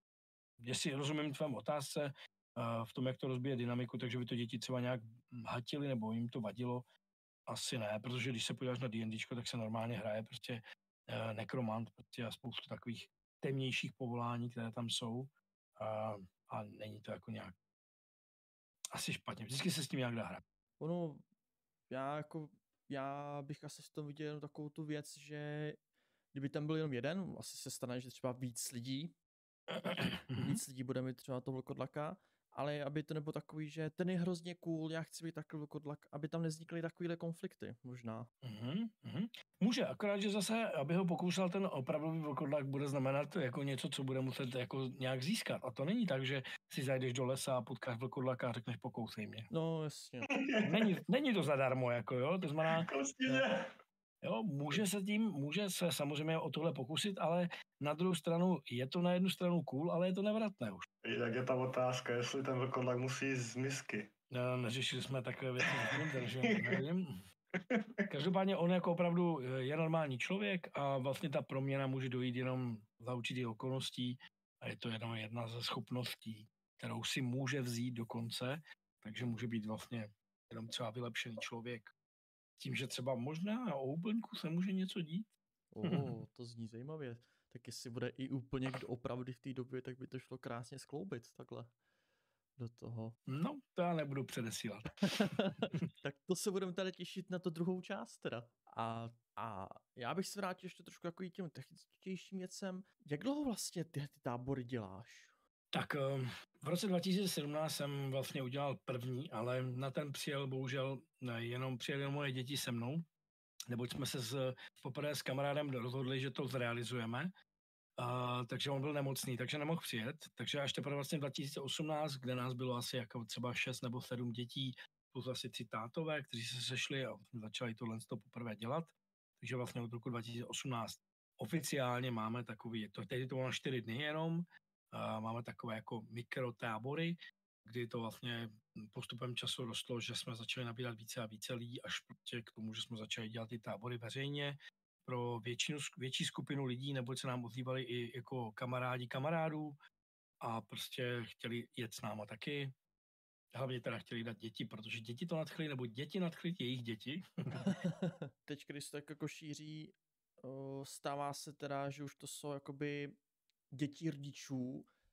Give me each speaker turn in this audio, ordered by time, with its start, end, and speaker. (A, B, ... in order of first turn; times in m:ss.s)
0:00.6-0:06.8 A
0:07.5-0:17.5 A
0:18.9-0:20.4 A
0:20.8-0:21.2 B
0:21.9-0:25.8 B
0:26.3-0:29.1 B
0:29.8-0:30.6 A
0:30.0-0:38.3 B
0:38.4-0:49.5 A
0:49.5-0:50.3 B
0:50.3-0:50.9 C
0:50.6-0:52.9 A
0:52.6-0:53.7 C
0:54.2-1:00.8 A
1:01.0-1:04.1 C
1:04.3-1:07.1 A
1:05.7-1:06.8 C
1:07.6-1:08.0 C
1:08.1-1:21.9 A
1:22.6-1:25.3 A
1:25.7-1:31.7 B
1:25.8-1:26.1 A
1:32.6-1:33.2 B
1:33.3-1:35.8 A
1:35.0-1:45.3 B
1:45.7-1:53.0 A
1:53.7-1:57.3 A
1:58.0-2:29.8 A
2:30.4-2:32.7 A
2:33.5-2:37.7 A
2:37.6-2:43.2 B
2:43.7-2:44.9 B